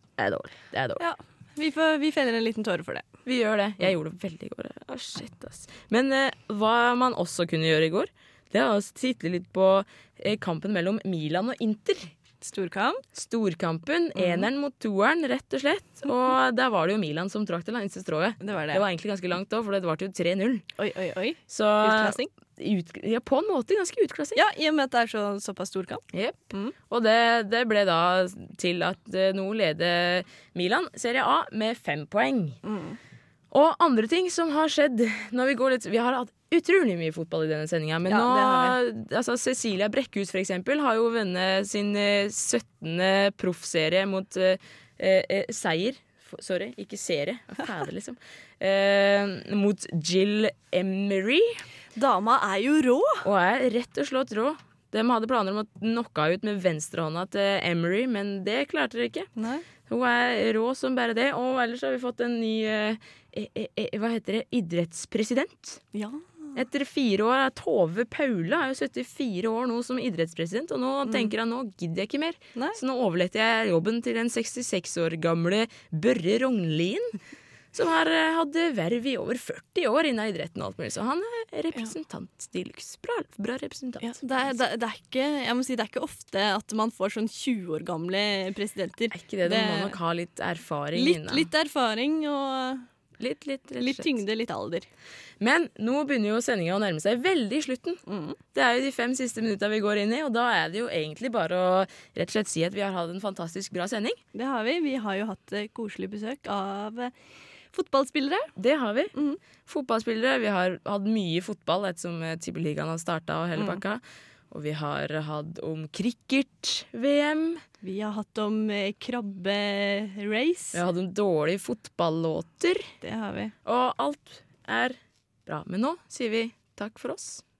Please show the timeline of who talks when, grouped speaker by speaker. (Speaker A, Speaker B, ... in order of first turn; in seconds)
Speaker A: 0.2-1.0, 3.2-12.1, 13.1-20.6, 21.5-24.4, 26.1-32.6, 33.5-51.6, 53.2-59.3, 59.9-65.8, 66.5-77.2, 77.7-84.6, 89.1-91.5, 93.2-94.2, 95.4-98.0, 98.5-104.2, 108.6-109.1, 109.7-117.6, 120.7-122.9, 123.6-127.4
Speaker B: 1.0-3.0, 12.4-13.0, 14.2-14.5, 18.4-18.8, 20.8-22.3, 24.4-26.7, 32.6-33.0, 38.1-38.8, 52.0-53.2, 59.4-59.6, 65.9-66.3, 71.0-71.3, 84.0-90.0, 90.9-92.9, 93.8-94.9, 98.1-98.4, 104.3-107.1, 107.7-108.5, 109.1-109.4, 113.6-113.8, 117.8-120.8, 123.0-123.5